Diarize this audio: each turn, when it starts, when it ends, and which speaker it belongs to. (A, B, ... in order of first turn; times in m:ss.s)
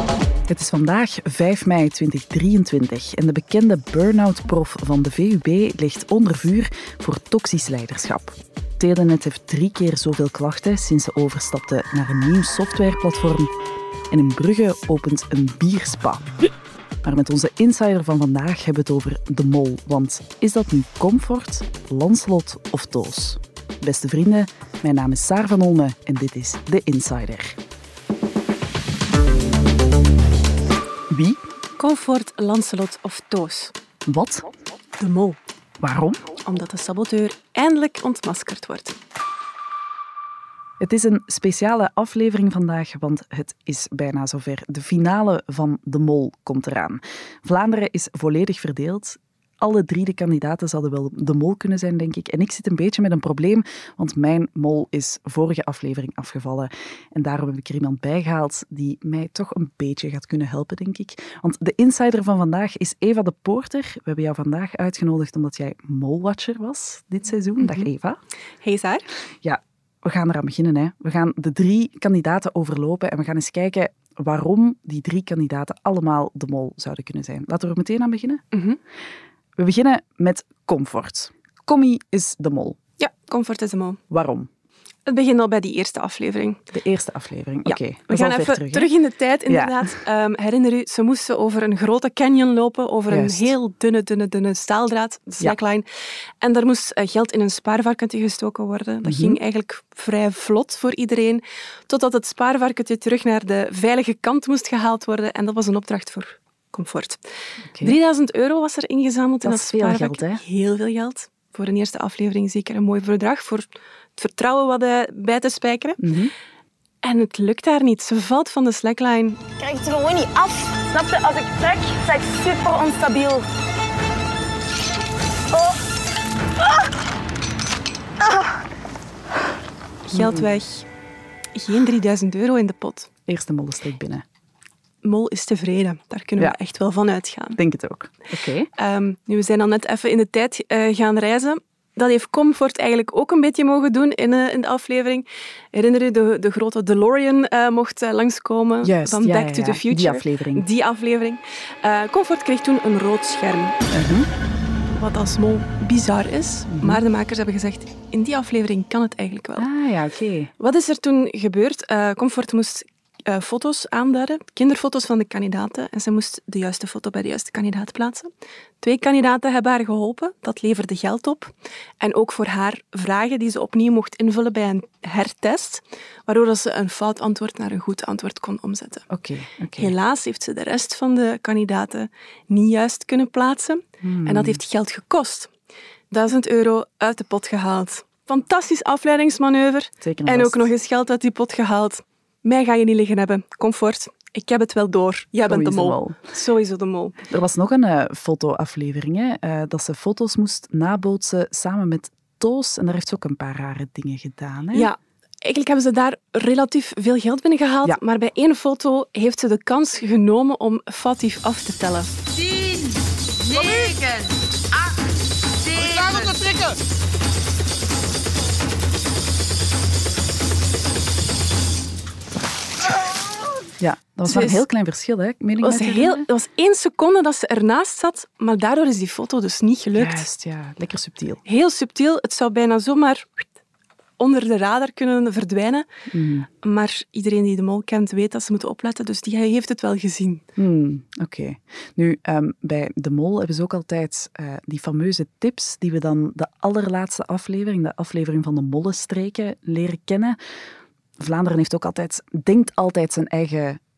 0:00.5-0:13.5 A
0:14.1-0:16.3 A
0:17.0-0:27.6 A
0:31.1-0:31.4 A
0:31.8-0:33.7 B
0:34.0-0:34.5 A
0:35.0-0:35.4 B
0:35.8-0:36.2 A
0:36.4-0:39.0 B
0:40.8-1:08.2 A
1:07.6-1:07.8 B
1:08.6-1:09.0 B
1:09.4-1:18.4 A
1:18.5-1:18.8 B
1:19.6-1:22.8 A
1:23.0-1:24.0 B
1:24.1-1:24.5 A
1:25.0-1:26.6 B
1:26.7-1:28.9 A
1:27.7-1:35.8 B
1:29.5-1:29.9 A
1:33.1-1:33.5 A
1:36.4-1:47.2 B
1:39.0-1:39.4 A
1:47.7-1:48.0 A
1:47.8-1:56.0 B
1:49.4-1:50.4 A
1:56.0-1:56.3 A
1:57.0-1:59.5 B
1:59.6-2:02.4 C
2:03.2-2:03.4 C
2:10.1-2:10.8 B
2:10.1-2:10.5 A
2:11.5-2:13.1 B
2:13.3-2:14.2 A
2:15.0-2:17.6 B
2:17.6-2:18.7 A
2:18.8-2:33.8 B
2:28.8-2:30.6 A
2:33.9-2:34.3 A
2:34.9-2:39.7 B
2:36.7-2:37.0 A
2:39.6-2:40.5 A
2:40.6-2:48.3 B
2:48.8-2:59.0 B
2:59.1-2:59.9 A
2:59.8-3:05.5 B
3:04.0-3:04.6 A
3:06.1-3:17.2 B
3:10.0-3:10.7 A
3:15.4-3:16.2 A
3:17.3-3:24.9 A
3:24.7-3:32.1 B
3:32.4-3:34.3 C
3:35.6-3:36.5 C
3:43.8-3:46.2 A
3:44.2-3:44.6 B
3:45.6-3:50.2 B
3:49.9-3:51.4 A
3:51.4-3:53.4 B
3:54.2-3:55.9 B
3:56.1-3:56.5 A
3:56.6-4:00.4 B
4:00.6-4:10.4 A
4:11.2-4:13.8 A